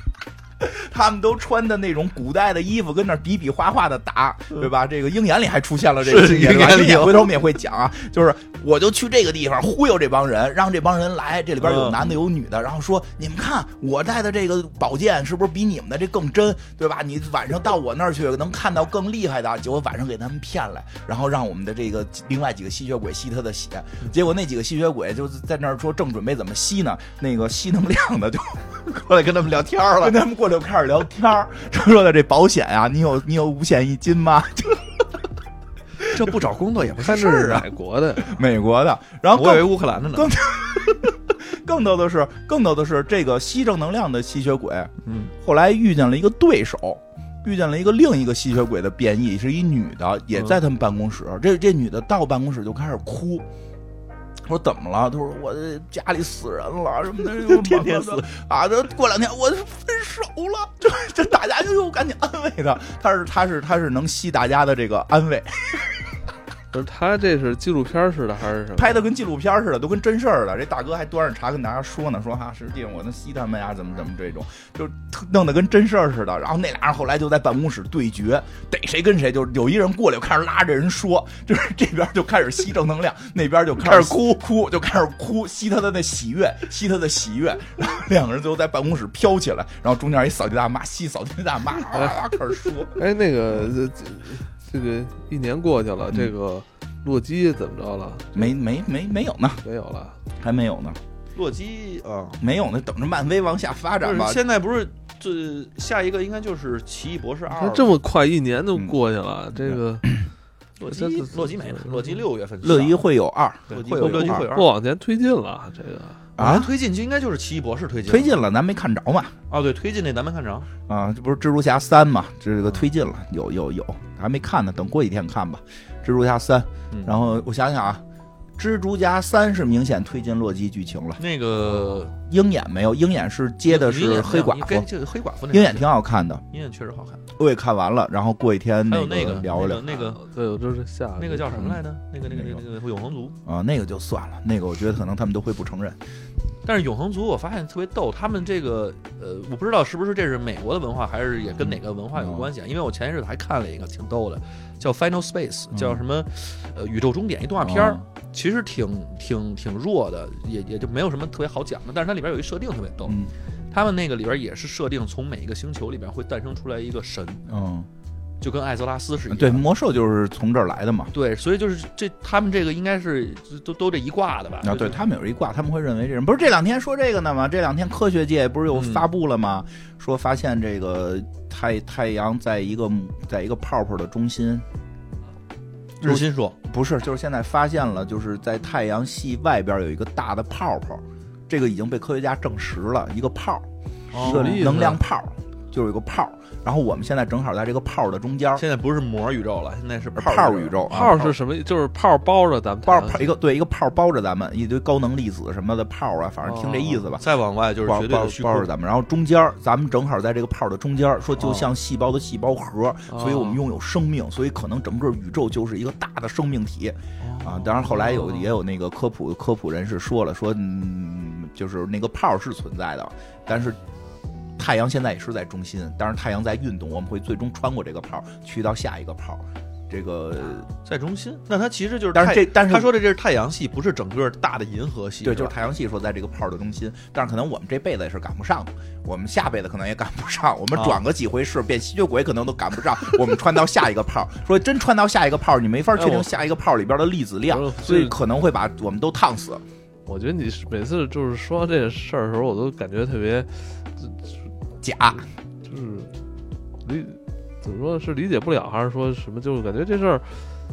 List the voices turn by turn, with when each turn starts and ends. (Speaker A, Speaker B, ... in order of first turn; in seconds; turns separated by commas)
Speaker A: 0.6-28.8, Speaker B: 6.0-7.3, Speaker B: 11.6-12.2, Speaker B: 28.9-30.2, Speaker A: 30.0-34.9, Speaker B: 36.1-37.7, Speaker C: 37.0-38.3, Speaker A: 38.2-53.5, Speaker B: 39.3-41.1, Speaker B: 45.0-45.3, Speaker A: 54.4-66.0, Speaker B: 57.3-58.3, Speaker C: 66.7-69.0, Speaker A: 68.8-93.7, Speaker B: 83.8-84.4, Speaker C: 93.0-98.5, Speaker A: 98.3-99.6, Speaker C: 99.6-100.2, Speaker A: 100.4-101.0, Speaker B: 101.4-102.4, Speaker A: 102.4-104.4, Speaker B: 104.0-107.9, Speaker C: 107.5-110.2, Speaker C: 110.8-112.2, Speaker B: 110.8-113.1, Speaker A: 112.6-114.5, Speaker B: 113.7-114.7, Speaker C: 114.0-116.2, Speaker A: 116.4-116.7, Speaker B: 116.4-118.4, Speaker A: 118.1-119.4, Speaker B: 119.5-120.7, Speaker A: 120.9-128.0, Speaker B: 122.7-122.9, Speaker B: 126.9-127.2, Speaker A: 128.6-131.2, Speaker B: 131.2-132.2, Speaker A: 132.2-134.9, Speaker B: 133.7-135.9, Speaker A: 135.5-136.4, Speaker B: 136.5-137.3, Speaker A: 137.4-140.1, Speaker B: 138.9-140.2, Speaker C: 140.2-141.7, Speaker B: 141.2-143.4, Speaker A: 142.3-142.6, Speaker A: 143.4-146.0, Speaker B: 146.7-167.5, Speaker A: 151.6-152.5, Speaker A: 155.7-156.0, Speaker A: 157.6-158.1, Speaker A: 163.1-163.3, Speaker A: 167.5-167.9, Speaker B: 168.4-169.6, Speaker A: 169.3-171.1, Speaker B: 171.1-175.1, Speaker A: 174.6-184.7, Speaker B: 178.7-179.1, Speaker B: 186.0-186.6, Speaker A: 186.0-198.6, Speaker B: 194.1-194.9, Speaker C: 194.2-195.0, Speaker B: 198.6-201.1, Speaker A: 200.2-201.3, Speaker C: 200.9-203.3, Speaker A: 202.9-207.2, Speaker C: 206.4-207.0, Speaker B: 207.2-208.7, Speaker A: 207.8-223.8, Speaker B: 211.4-211.7, Speaker C: 213.1-213.6, Speaker B: 217.2-218.6, Speaker A: 224.6-230.7, Speaker B: 230.8-235.5, Speaker A: 232.2-232.9, Speaker A: 235.2-249.6, Speaker B: 240.7-241.0, Speaker C: 245.9-246.3, Speaker C: 247.5-248.2, Speaker C: 250.1-254.3, Speaker A: 254.8-255.2, Speaker C: 255.6-256.1, Speaker C: 256.8-260.4